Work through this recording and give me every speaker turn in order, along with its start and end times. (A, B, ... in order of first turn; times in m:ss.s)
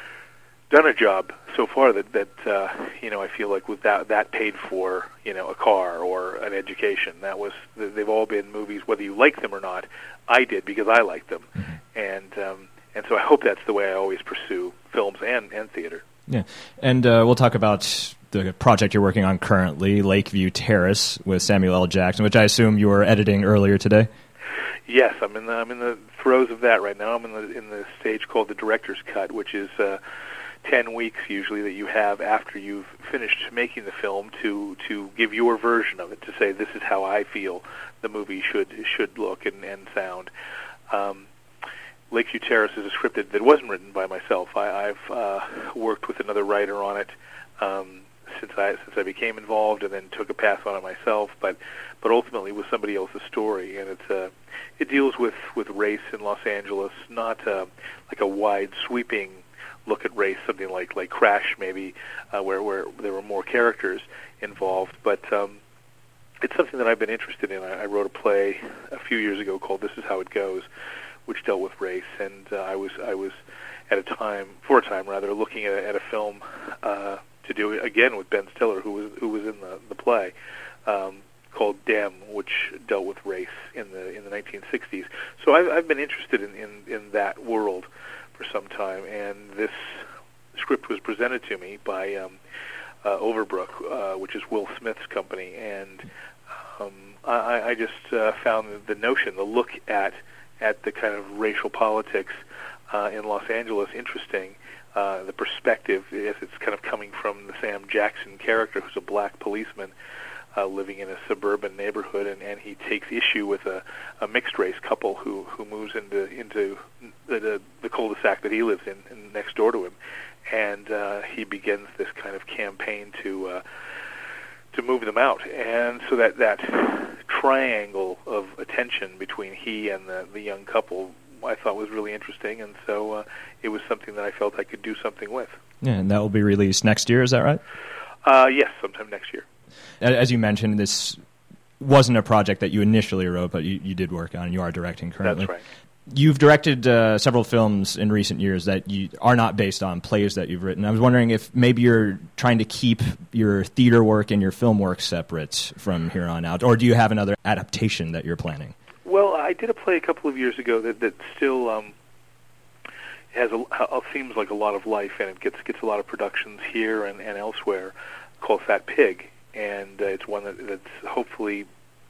0:00.7-0:16.0 A
0:16.3-0:24.1 B
0:24.9-0:30.0 A
0:30.6-0:40.3 A
0:40.9-0:41.3 A
0:42.1-1:05.6 A
1:06.4-1:10.7 A
1:11.3-1:13.4 A
1:13.9-1:20.3 A
1:20.9-1:32.4 A
1:33.0-1:36.1 A
1:36.8-1:49.9 A
1:50.6-2:00.0 A
2:00.5-2:03.6 A
2:04.7-2:15.6 A
2:15.8-2:17.6 B
2:18.2-2:19.4 A
2:20.0-2:21.2 B
2:21.8-2:25.5 B
2:25.2-2:25.6 A
2:26.1-2:38.7 B
2:39.1-2:42.0 A
2:43.3-2:51.7 A